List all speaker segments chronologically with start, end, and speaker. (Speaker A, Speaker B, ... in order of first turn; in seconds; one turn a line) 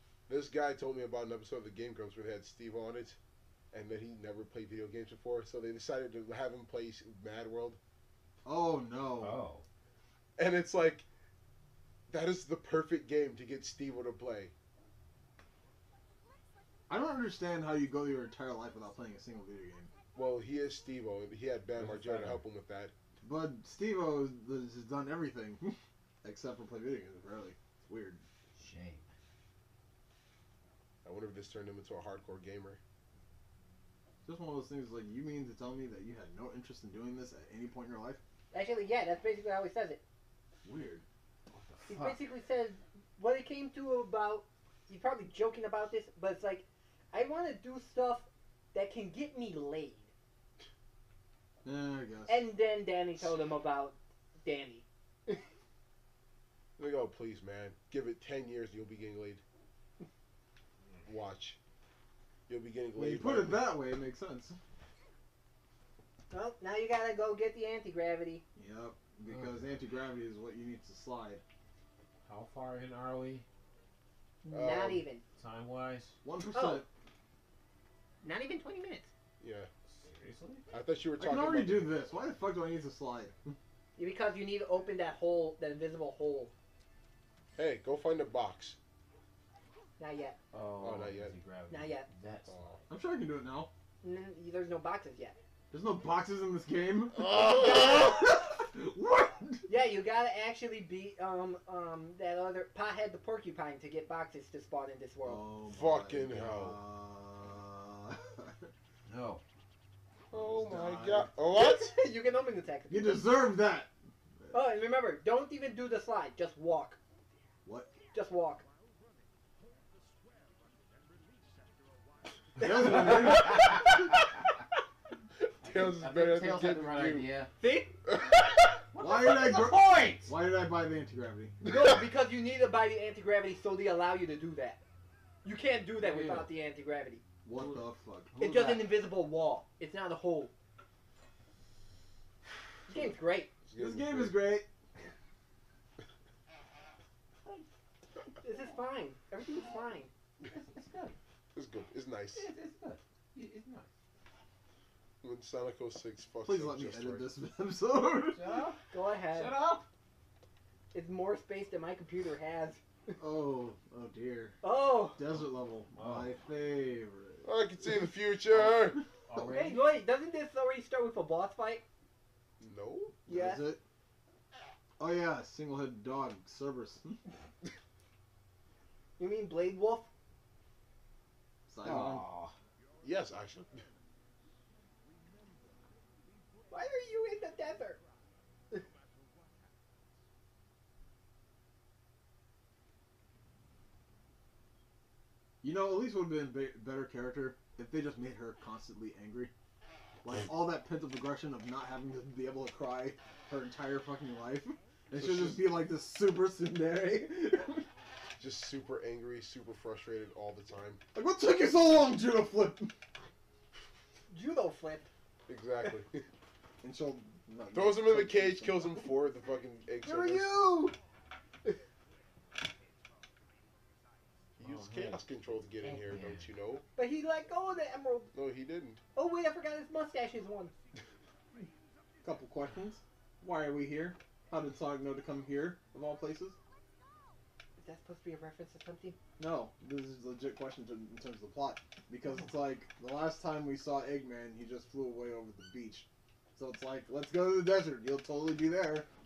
Speaker A: 0.3-3.2
Speaker A: 3.7-7.8
Speaker B: 8.4-9.4
Speaker C: 9.2-9.6
Speaker A: 10.4-11.1
Speaker A: 12.1-14.5
Speaker B: 16.9-19.9
Speaker A: 20.1-22.9
Speaker B: 21.9-22.3
Speaker C: 21.9-22.3
Speaker B: 23.2-28.2
Speaker C: 28.6-29.1
Speaker A: 31.0-32.8
Speaker B: 34.2-38.2
Speaker D: 38.5-40.0
Speaker B: 40.6-41.0
Speaker C: 41.5-42.2
Speaker D: 41.9-50.1
Speaker B: 51.6-52.5
Speaker D: 52.3-54.9
Speaker A: 56.8-59.4
Speaker A: 61.0-61.6
Speaker A: 62.5-63.7
Speaker B: 63.0-64.6
Speaker D: 66.3-68.4
Speaker B: 68.6-71.4
Speaker C: 69.3-69.6
Speaker C: 72.2-73.5
Speaker D: 74.4-75.2
Speaker A: 74.5-75.0
Speaker C: 75.4-76.2
Speaker B: 76.2-76.9
Speaker D: 76.5-76.8
Speaker D: 78.2-79.1
Speaker A: 79.4-79.7
Speaker C: 79.9-80.6
Speaker A: 80.7-81.9
Speaker B: 81.2-83.5
Speaker D: 84.0-86.5
Speaker A: 87.6-88.8
Speaker D: 90.0-90.4
Speaker C: 90.5-92.8
Speaker A: 90.8-91.3
Speaker D: 91.7-92.1
Speaker B: 92.9-93.7
Speaker D: 94.0-95.4
Speaker B: 95.7-99.7
Speaker A: 97.1-98.2
Speaker D: 97.4-98.3
Speaker D: 99.7-105.4
Speaker B: 105.2-108.7
Speaker A: 105.7-106.8
Speaker C: 109.1-109.4
Speaker B: 110.3-111.3
Speaker A: 110.3-112.0
Speaker D: 111.5-113.2
Speaker B: 112.9-113.9
Speaker D: 114.5-117.0
Speaker B: 117.6-117.9
Speaker D: 118.1-118.6
Speaker B: 122.6-123.8
Speaker A: 125.6-127.3
Speaker C: 125.6-127.5
Speaker D: 127.6-128.0
Speaker A: 128.1-128.3
Speaker C: 128.9-130.3
Speaker B: 129.0-131.7
Speaker D: 131.7-134.8
Speaker D: 135.4-137.2
Speaker C: 136.0-136.5
Speaker B: 137.4-138.3
Speaker C: 137.5-139.0
Speaker D: 138.4-140.5
Speaker D: 142.9-143.5
Speaker A: 143.7-144.4
Speaker B: 143.8-144.7
Speaker D: 148.4-150.1
Speaker C: 150.4-151.2
Speaker A: 151.5-152.5
Speaker C: 152.3-153.9
Speaker A: 155.2-157.3
Speaker B: 156.4-158.4
Speaker C: 158.3-158.8
Speaker D: 158.9-159.5
Speaker C: 159.3-159.9
Speaker D: 160.9-163.2
Speaker B: 163.2-164.6
Speaker D: 164.6-165.2
Speaker B: 165.2-167.5
Speaker C: 165.9-166.3
Speaker A: 167.4-169.0
Speaker C: 169.3-170.0
Speaker D: 169.4-171.8
Speaker A: 172.6-173.2
Speaker B: 173.3-173.8
Speaker D: 173.3-173.6
Speaker B: 175.0-177.2
Speaker D: 179.2-180.1
Speaker B: 181.7-182.2
Speaker C: 181.8-182.5
Speaker A: 183.0-183.8
Speaker D: 186.7-188.0
Speaker B: 195.6-199.5
Speaker B: 200.2-207.8
Speaker A: 205.2-205.7
Speaker A: 208.4-211.0
Speaker B: 211.2-212.9
Speaker D: 214.3-215.1
Speaker A: 215.5-216.2
Speaker B: 216.8-219.0
Speaker A: 217.7-220.6
Speaker D: 220.0-220.9
Speaker A: 224.6-226.8
Speaker C: 224.6-225.2
Speaker C: 225.8-226.5
Speaker D: 227.0-228.3
Speaker A: 228.3-229.0
Speaker D: 229.2-230.7
Speaker B: 232.2-236.6
Speaker D: 237.8-239.2
Speaker B: 239.4-249.1